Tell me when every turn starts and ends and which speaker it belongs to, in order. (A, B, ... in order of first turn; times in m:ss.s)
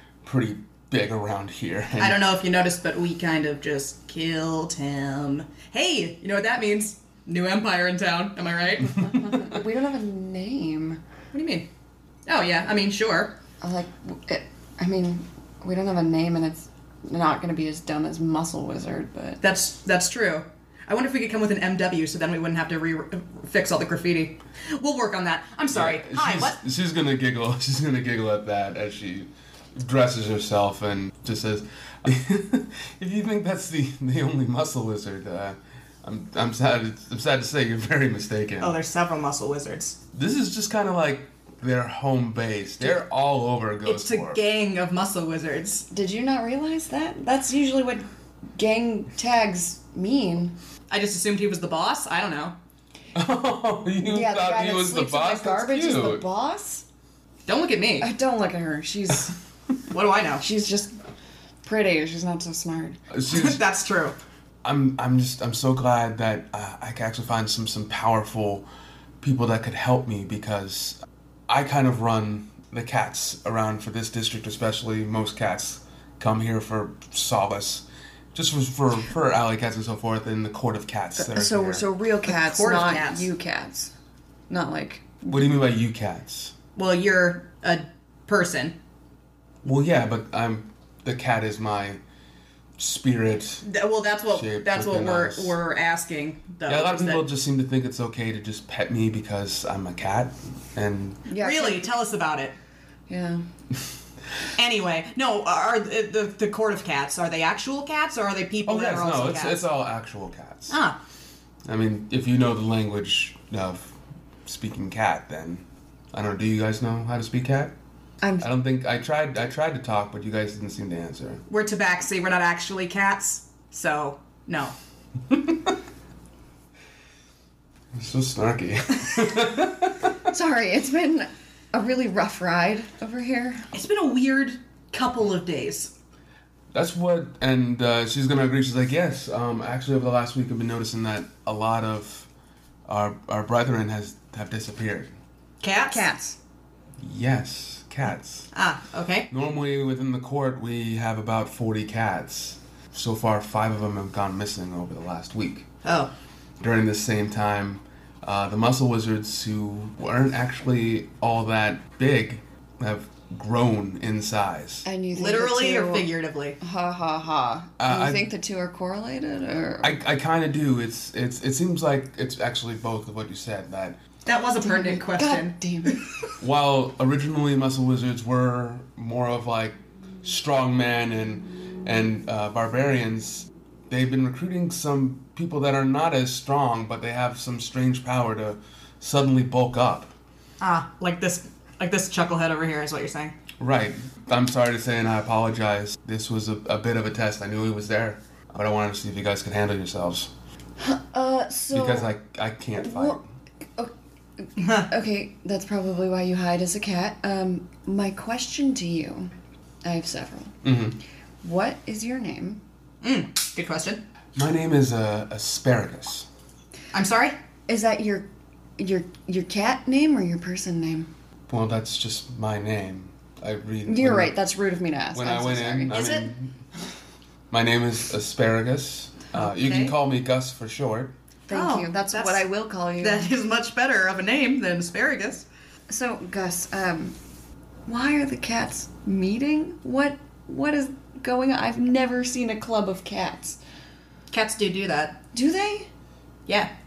0:00.2-0:02.2 A
0:02.0-0:09.5 B
0:09.4-0:11.0 C
0:11.3-0:11.7 B
0:12.2-0:13.4 B
0:13.6-0:19.4 C
0:19.4-0:26.6 B
0:25.7-0:38.8 A
0:38.6-0:40.0 B
0:40.1-0:44.4 A
0:43.8-0:45.8 B
0:45.9-0:50.5 C
0:50.9-0:52.6 B
0:53.1-0:56.2 A
0:54.0-0:56.8 C
0:57.5-0:58.1 B
0:58.0-0:59.3 C
0:59.9-1:00.4 B
1:00.4-1:01.0 C
1:01.6-1:03.0 C
1:03.1-1:03.6 A
1:03.3-1:04.2 B
1:04.6-1:08.6 A
1:09.2-1:21.8 A
1:21.2-1:23.9 C
1:22.3-1:23.3 B
1:24.5-1:25.6 C
1:25.3-1:26.5 A
1:26.8-1:28.7 B
1:29.6-1:32.0 A
1:32.8-1:33.6 A
1:33.6-1:37.3 B
1:34.3-1:35.5 A
1:36.7-1:41.2 A
1:41.3-1:41.9 C
1:41.3-1:42.6 B
1:43.1-1:43.4 C
1:44.6-1:49.6 B
1:48.6-1:50.8 A
1:50.7-1:51.0 B
1:51.6-1:53.9 A
1:54.4-1:57.7 A
1:58.2-1:58.4 C
1:58.4-2:01.4 A
2:01.5-2:04.7 B
2:05.3-2:05.7 A
2:07.9-2:10.1 A
2:10.3-2:13.7 C
2:13.7-2:15.9 B
2:16.7-2:22.3 A
2:22.9-2:25.1 A
2:25.6-2:26.3 B
2:27.0-2:28.5 A
2:28.5-2:29.3 B
2:29.3-2:35.7 A
2:35.8-2:36.1 B
2:36.6-2:44.8 A
2:44.8-2:50.0 C
2:45.1-2:46.6 B
2:47.8-2:48.3 A
2:49.8-2:54.0 A
2:54.2-2:56.0 B
2:54.6-2:56.0 C
2:56.4-3:10.1 A
3:10.6-3:13.3 B
3:13.6-3:20.3 A
3:20.8-3:22.1 C
3:21.7-3:23.2 A
3:22.8-3:23.2 C
3:23.8-3:29.3 C
3:24.6-3:24.9 B
3:29.8-3:30.6 C
3:30.6-3:31.0 A
3:31.4-3:32.6 C
3:33.0-3:34.0 B
3:34.3-3:36.2 A
3:36.9-3:37.4 B
3:37.7-3:38.3 C
3:38.8-3:41.1 C
3:41.5-3:44.4 A
3:43.9-3:45.9 C
3:45.1-3:46.5 A
3:45.9-3:46.3 B
3:47.5-3:51.1 A
3:49.4-3:49.9 B
3:51.5-3:53.3 C
3:51.5-3:52.4 B
3:53.0-3:55.4 B
3:55.9-3:57.2 C
3:57.8-4:03.6 C
4:04.3-4:05.2 B
4:05.3-4:05.9 C